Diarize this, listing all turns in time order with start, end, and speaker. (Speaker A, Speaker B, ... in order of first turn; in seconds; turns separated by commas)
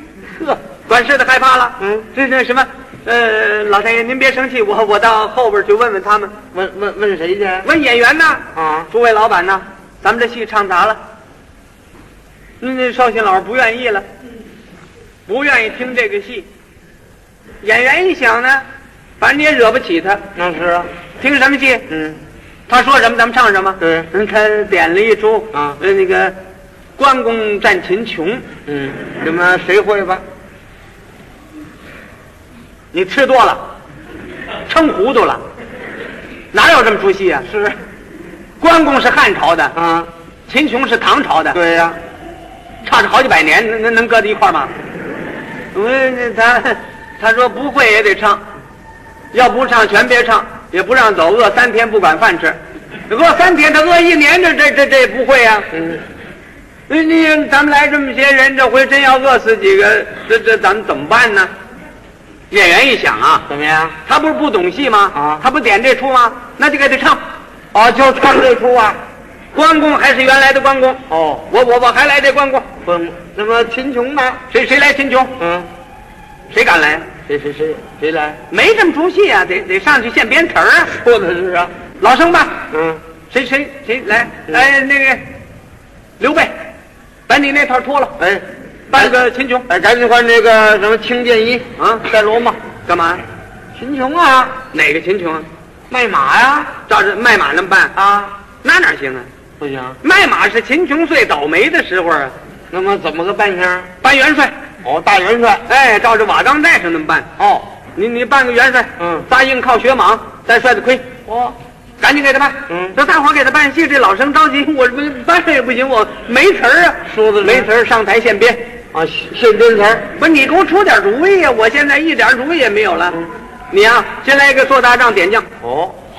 Speaker A: 0.4-6.3, Speaker B: 1.8-2.1, Speaker B: 6.5-7.7, Speaker A: 7.6-11.0, Speaker B: 8.5-8.9, Speaker A: 12.6-14.1, Speaker A: 15.3-16.5, Speaker A: 17.6-18.6, Speaker A: 19.2-20.2, Speaker B: 20.3-20.9, Speaker A: 21.2-21.9, Speaker B: 21.9-22.2, Speaker A: 22.7-26.3, Speaker B: 23.8-24.1, Speaker B: 25.5-25.8, Speaker A: 27.0-28.4, Speaker B: 28.7-30.2, Speaker A: 32.9-33.6, Speaker A: 34.7-35.4, Speaker A: 36.5-37.5, Speaker B: 37.5-37.7, Speaker A: 38.6-39.7, Speaker B: 39.7-40.1, Speaker A: 40.5-41.6, Speaker B: 41.5-42.0, Speaker A: 42.8-44.7, Speaker A: 45.7-48.4, Speaker A: 49.3-52.6, Speaker A: 53.1-55.7, Speaker B: 55.7-56.0, Speaker A: 56.9-61.5, Speaker A: 62.5-63.5, Speaker B: 63.5-64.0, Speaker A: 64.0-67.2, Speaker B: 65.1-65.4, Speaker B: 67.7-69.0, Speaker A: 69.5-72.7, Speaker B: 71.1-71.5, Speaker B: 72.8-74.4, Speaker A: 74.5-75.3, Speaker B: 75.4-75.7, Speaker A: 76.5-77.1, Speaker B: 77.3-78.4, Speaker A: 78.5-81.0, Speaker B: 80.9-81.7, Speaker A: 82.0-82.7, Speaker B: 82.7-83.0, Speaker A: 83.3-85.2, Speaker A: 86.2-86.5, Speaker A: 87.3-88.2, Speaker B: 88.2-89.1, Speaker A: 88.9-89.7, Speaker B: 89.7-92.6, Speaker A: 91.8-92.0, Speaker A: 92.8-93.2, Speaker B: 93.7-94.6, Speaker A: 94.7-95.5, Speaker B: 95.9-96.7, Speaker A: 96.9-98.0, Speaker B: 98.0-98.3, Speaker A: 98.6-99.3, Speaker B: 99.6-100.0, Speaker A: 100.0-102.3, Speaker B: 102.7-103.9, Speaker A: 104.0-104.5, Speaker B: 104.8-105.6, Speaker A: 105.7-107.3, Speaker B: 107.4-107.7, Speaker A: 107.9-111.0, Speaker B: 109.0-109.2, Speaker B: 111.2-111.6, Speaker A: 112.0-118.6, Speaker B: 112.7-113.0, Speaker B: 117.1-117.7, Speaker B: 118.9-120.1, Speaker A: 120.2-125.5, Speaker B: 125.6-126.0